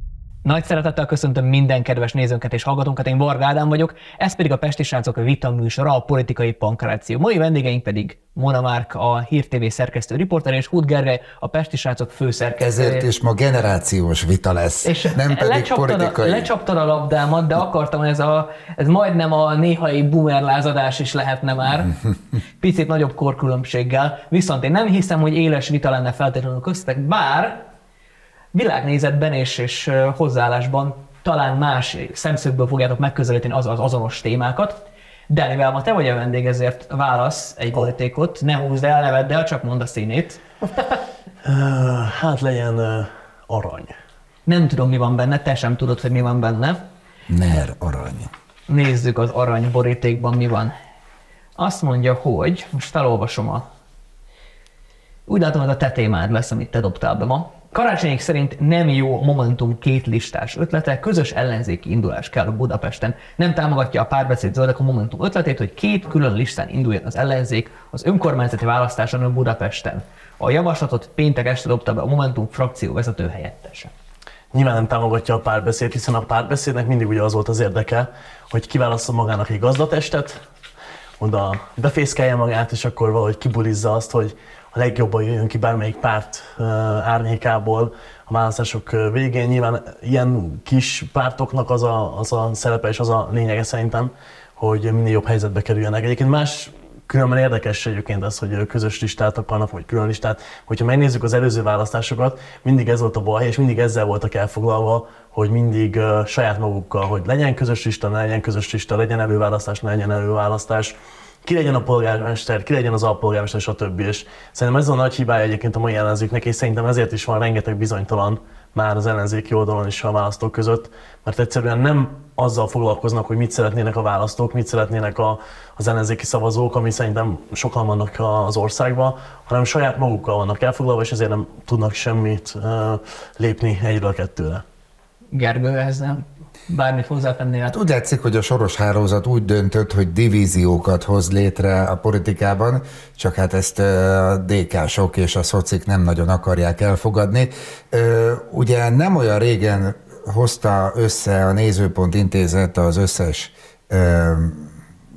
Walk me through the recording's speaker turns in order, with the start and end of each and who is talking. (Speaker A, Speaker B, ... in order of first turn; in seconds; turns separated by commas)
Speaker A: 0.4-13.1, Speaker B: 12.6-16.5, Speaker A: 14.8-21.9, Speaker A: 22.6-27.6, Speaker A: 28.5-34.8, Speaker A: 35.3-40.4, Speaker C: 41.4-43.9, Speaker A: 44.5-46.8, Speaker B: 47.3-48.3, Speaker A: 48.7-50.7, Speaker A: 51.6-53.6, Speaker A: 55.3-73.9, Speaker C: 74.5-80.4, Speaker C: 81.2-134.6, Speaker A: 135.3-137.7, Speaker B: 137.7-154.7